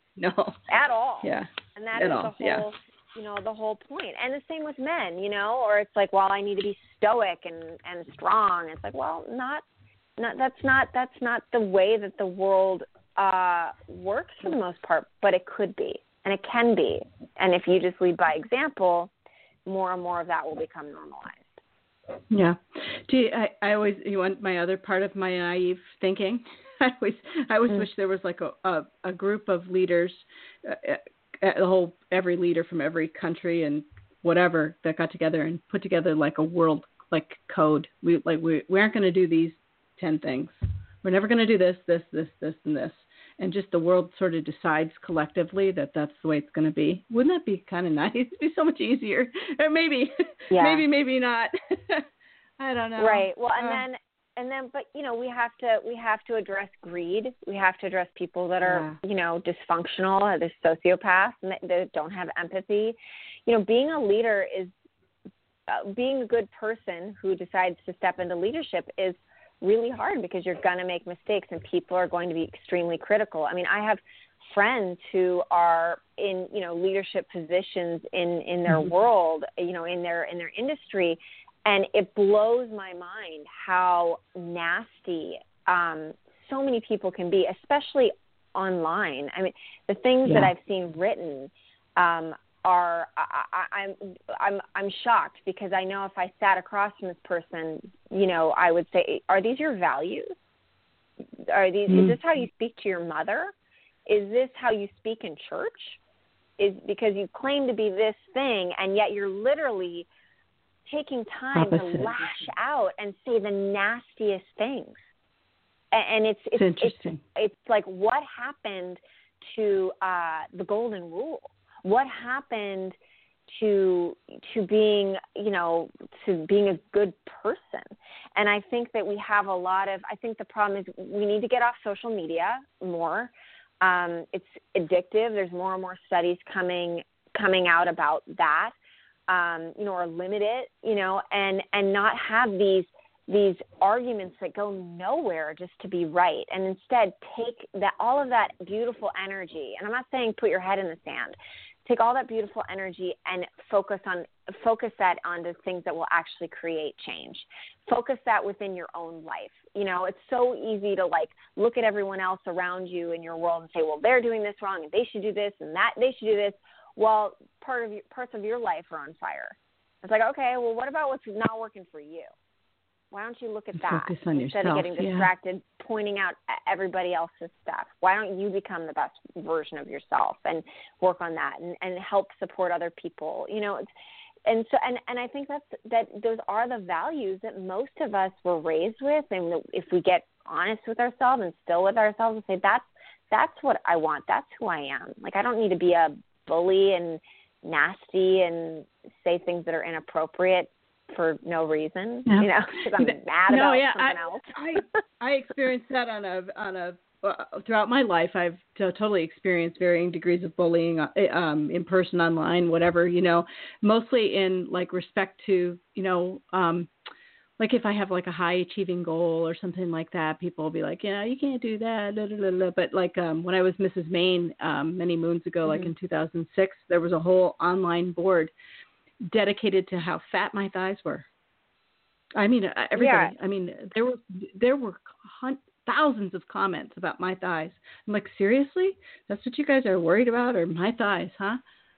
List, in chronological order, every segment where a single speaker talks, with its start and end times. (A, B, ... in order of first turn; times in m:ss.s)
0:00.2-0:00.7 A
0:00.7-0:09.6 B
0:01.2-0:02.7 A
0:10.2-0:19.1 B
0:19.7-0:21.6 B
0:22.3-0:52.1 A
0:50.5-0:50.8 B
0:52.6-0:53.8 A
0:53.0-1:04.7 B
0:58.6-0:59.0 A
1:05.7-1:40.4 B
1:30.3-1:30.5 A
1:41.4-1:43.5 B
1:41.9-1:42.2 A
1:44.1-1:46.0 B
1:46.6-1:50.1 B
1:50.9-1:55.0 B
1:51.6-1:52.2 A
1:55.9-2:03.0 B
1:56.6-1:57.2 A
2:03.5-2:18.7 B
2:19.3-2:52.3 B
2:53.1-3:03.9 B
2:53.8-2:55.3 A
3:04.5-3:24.4 B
3:22.3-3:36.9 A
3:37.6-3:48.5 A
3:49.2-3:51.3 A
3:52.4-4:01.6 A
3:53.0-3:53.3 B